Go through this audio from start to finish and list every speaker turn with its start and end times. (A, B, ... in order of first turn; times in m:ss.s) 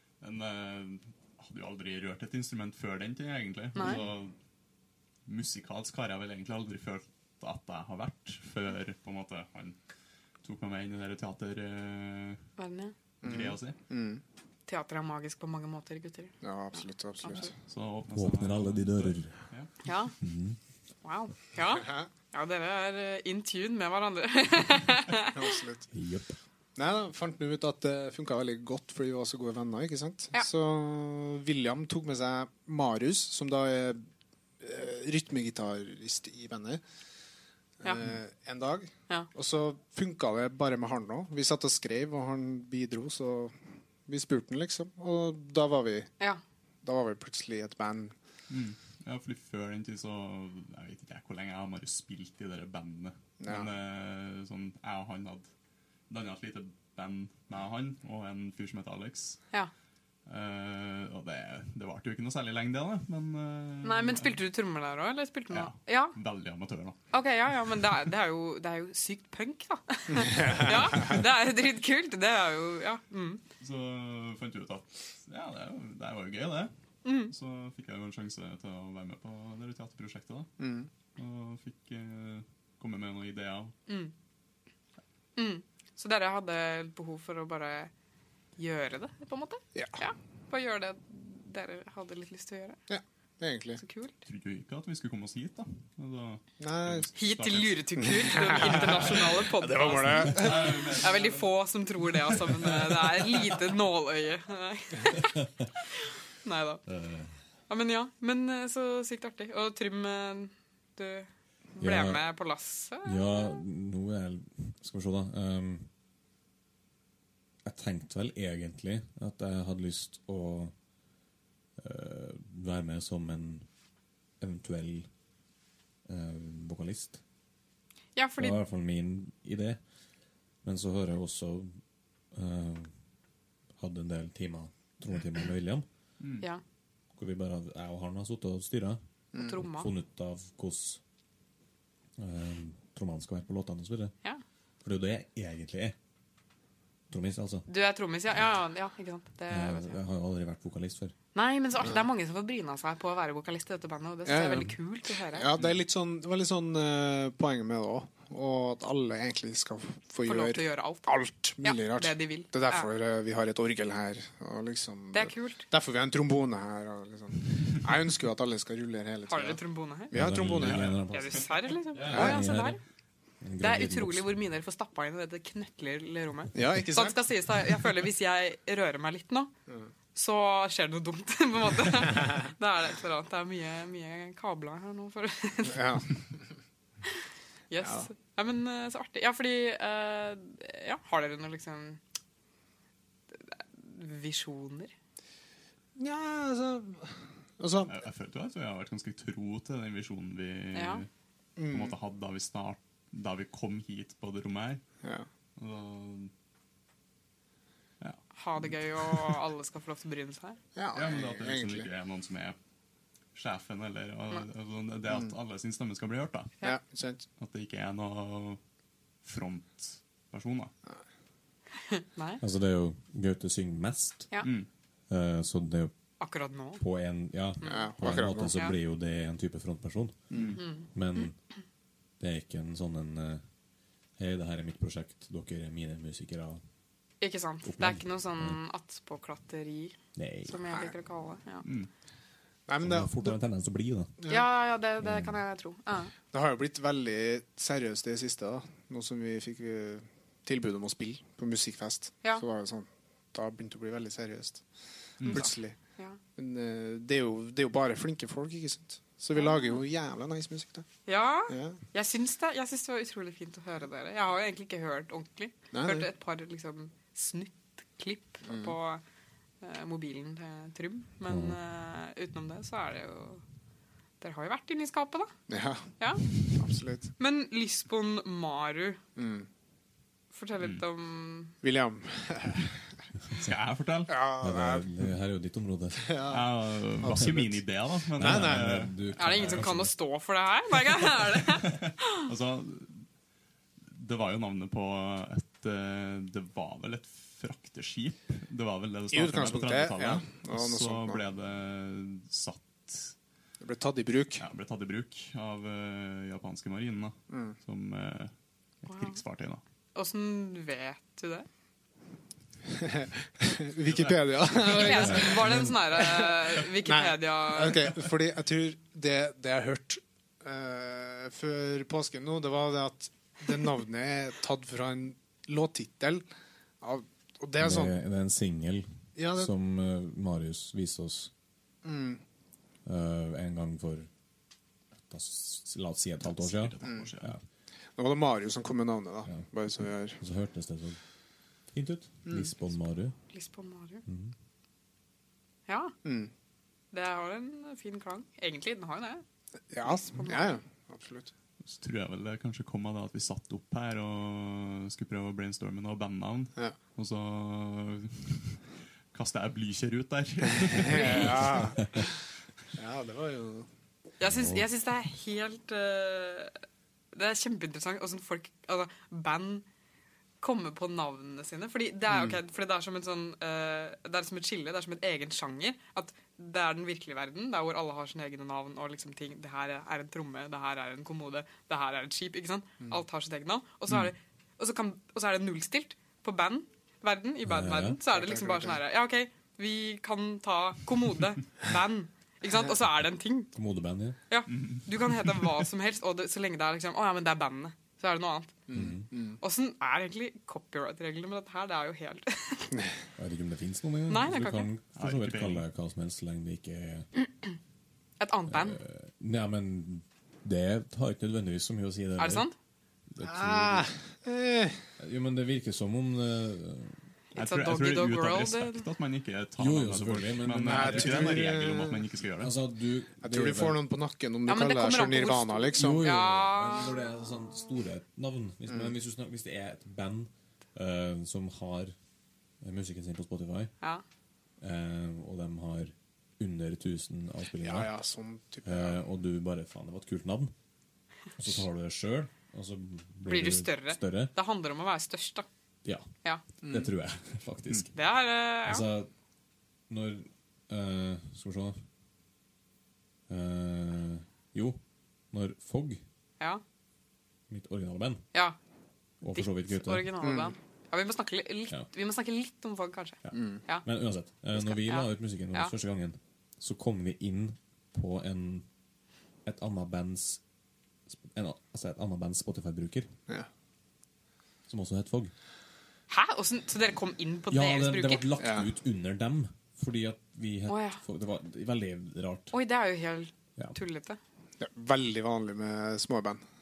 0:00.2-0:04.3 A
0:03.8-0:04.0 B
0:05.3-0:09.8 A
0:10.4-0:12.4 A
0:12.6-0:12.9 B
0:13.2-0:13.8 A
0:13.2-0:14.2 C
0:14.7-0:17.5 B
0:16.4-0:17.5 C
0:17.7-0:19.7 A
0:18.1-0:19.3 D
0:19.8-0:20.2 B
0:20.2-0:20.6 D
0:21.0-0:25.5 B
0:21.7-0:22.1 C
0:25.3-0:25.9 C
0:25.9-0:26.4 D
0:26.8-0:34.0 C
0:34.6-0:36.8 C
0:37.8-0:43.6 C
0:44.1-0:46.1 C
0:46.8-0:48.1 C
0:48.5-0:55.5 A
0:53.4-0:53.7 C
0:56.1-0:59.4 A
1:00.3-1:04.4 A
1:03.8-1:06.2 B
1:05.5-1:07.0 A
1:07.1-1:13.4 B
1:10.1-1:11.2 C
1:13.6-1:16.7 A
1:17.0-1:17.3 B
1:17.3-1:20.5 A
1:20.6-1:20.9 C
1:21.2-1:23.7 A
1:23.9-1:24.1 B
1:25.4-1:27.9 B
1:28.6-1:32.8 B
1:32.9-1:33.8 C
1:33.8-1:34.2 B
1:34.3-1:39.2 A
1:36.6-1:37.1 C
1:37.2-1:45.4 B
1:38.0-1:41.0 C
1:39.9-1:41.5 A
1:46.4-1:46.8 B
1:46.9-1:47.3 D
1:47.7-1:53.6 B
1:51.8-1:52.2 D
1:53.0-1:55.9 D
1:57.6-2:00.7 D
2:01.8-2:03.7 D
2:04.4-2:05.1 D
2:06.1-2:07.2 D
2:08.2-2:08.6 B
2:08.4-2:09.8 D
2:10.6-2:11.8 D
2:12.3-2:12.9 D
2:13.8-2:15.9 D
2:16.2-2:16.5 A
2:17.2-2:21.0 D
2:19.4-2:19.9 B
2:22.2-2:24.1 D
2:24.8-2:26.0 D
2:27.1-2:27.7 D
2:27.7-2:30.0 B
2:29.5-2:31.1 D
2:31.3-2:35.5 B
2:34.3-2:51.0 C
2:40.2-2:42.9 B
2:45.1-2:45.7 B
2:49.3-2:50.2 B
2:50.1-2:52.8 D
2:50.6-2:51.0 A
2:51.1-2:52.8 B
2:52.1-2:52.4 C
2:53.4-2:54.3 D
2:53.6-2:59.5 B
2:56.5-2:57.2 C
3:00.2-3:06.0 B
3:05.7-3:06.2 C
3:07.7-3:12.0 B
3:13.3-3:14.9 B
3:16.0-3:17.9 C
3:17.9-3:21.1 A
3:20.7-3:21.1 B
3:21.6-3:22.0 C
3:21.7-3:24.8 A
3:25.6-3:26.3 A
3:28.0-3:29.4 A
3:28.4-3:30.6 B
3:30.8-3:31.9 C
3:30.9-3:32.6 A
3:33.4-3:36.6 A
3:35.1-3:35.3 C
3:36.6-3:37.2 C
3:37.4-3:38.6 A
3:39.2-3:40.7 A
3:41.9-3:42.4 B
3:42.4-3:44.3 D
3:44.4-3:44.7 A
3:45.1-3:45.9 D
3:46.2-3:46.8 B
3:46.8-3:50.2 D
3:47.6-3:47.9 B
3:47.6-3:48.6 C
3:50.3-3:50.6 C
3:50.3-3:50.6 A
3:50.6-3:50.9 B
3:50.8-3:51.4 D
3:52.2-3:53.4 D
3:54.2-3:56.6 D
3:57.2-4:01.7 B
3:57.6-3:58.6 D
4:00.2-4:00.6 D
4:00.7-4:00.9 C
4:01.6-4:01.9 A
4:02.7-4:03.4 C
4:02.8-4:04.1 D
4:04.3-4:06.1 B
4:05.0-4:05.4 D
4:06.3-4:14.6 C
4:15.2-4:15.5 A
4:15.2-4:15.8 C
4:15.3-4:16.2 B
4:16.4-4:20.9 C
4:19.4-4:19.8 B
4:21.1-4:29.0 B
4:21.5-4:21.8 C
4:25.7-4:26.1 C
4:28.4-4:28.8 C
4:29.6-4:33.4 B
4:31.2-4:31.6 D
4:34.2-4:35.3 B
4:35.5-4:37.1 C
4:37.2-4:39.0 B
4:39.2-4:39.5 C
4:40.3-4:41.5 B
4:41.6-4:42.8 C
4:43.4-4:44.2 A
4:44.1-4:45.1 C
4:44.4-4:46.2 D
4:46.0-4:46.4 C
4:46.3-4:49.7 A
4:47.0-4:47.6 C
4:48.1-4:49.9 D
4:48.2-4:48.8 C
4:49.2-4:52.3 B
4:51.7-4:53.0 A
4:53.9-5:03.2 A
4:59.1-5:01.2 C
5:03.6-5:04.4 C
5:04.4-5:08.3 A
5:07.3-5:07.6 C
5:08.9-5:09.2 B
5:08.9-5:09.6 A
5:10.0-5:11.5 B
5:12.7-5:26.2 C
5:13.8-5:15.0 A
5:14.6-5:18.0 B
5:15.0-5:15.8 D
5:26.8-5:28.0 C
5:27.6-5:31.3 D
5:29.2-5:29.5 C
5:31.8-5:32.2 C
5:32.8-5:34.1 D
5:35.0-5:37.4 D
5:36.3-5:37.4 A
5:38.0-5:40.2 C
5:39.3-5:41.0 D
5:41.7-5:43.2 D
5:43.3-5:44.0 B
5:44.1-5:44.3 D
5:45.7-5:45.9 B
5:46.0-5:46.3 C
5:46.9-5:49.2 B
5:49.7-5:51.3 C
5:49.8-5:50.6 B
5:51.6-5:58.6 A
5:59.1-6:01.8 A
6:00.7-6:02.0 C
6:01.0-6:01.3 B
6:02.7-6:03.7 C
6:04.2-6:06.6 B
6:04.2-6:04.7 D
6:07.1-6:09.6 B
6:10.4-6:33.5 B
6:12.1-6:12.4 C
6:27.4-6:28.0 D
6:28.1-6:28.8 C
6:33.6-6:34.2 D
6:34.3-6:38.6 B
6:34.5-6:35.6 A
6:38.7-6:39.4 C
6:38.7-6:39.1 D
6:39.4-6:42.8 B
6:43.2-6:47.1 D
6:44.1-6:44.7 B
6:45.0-6:45.6 A
6:48.2-6:48.8 B
6:48.5-6:52.5 D
6:52.2-6:52.6 B
6:53.1-6:53.9 D
6:53.2-6:54.8 C
6:55.0-6:57.0 D
6:57.3-6:58.9 B
6:57.4-7:02.6 A
6:59.6-7:01.6 D
7:00.7-7:02.1 C
7:02.4-7:03.8 D
7:03.2-7:06.2 C
7:04.5-7:07.0 B
7:05.8-7:12.0 D
7:08.7-7:08.9 C
7:12.6-7:13.7 D
7:14.6-7:17.9 D
7:17.6-7:19.0 C
7:18.6-7:20.5 D
7:21.4-7:24.3 D
7:23.3-7:25.5 B
7:25.8-7:26.1 D
7:26.6-7:26.9 C
7:26.6-7:28.0 D
7:28.0-7:28.9 B
7:28.6-7:29.1 D
7:29.9-7:31.8 D
7:33.3-7:34.8 D
7:35.3-7:36.0 D
7:37.5-7:38.2 D
7:39.2-7:40.3 D
7:39.3-7:43.9 B
7:40.2-7:40.5 C
7:43.2-7:48.7 D
7:43.3-7:43.6 C
7:44.6-7:45.7 B
7:49.4-7:50.4 D
7:51.1-7:53.1 D
7:54.7-7:55.3 D
7:56.1-7:58.3 B
7:57.5-8:02.5 D
7:58.4-7:58.7 C
8:00.7-8:01.0 B
8:02.5-8:04.2 B
8:04.6-8:06.4 C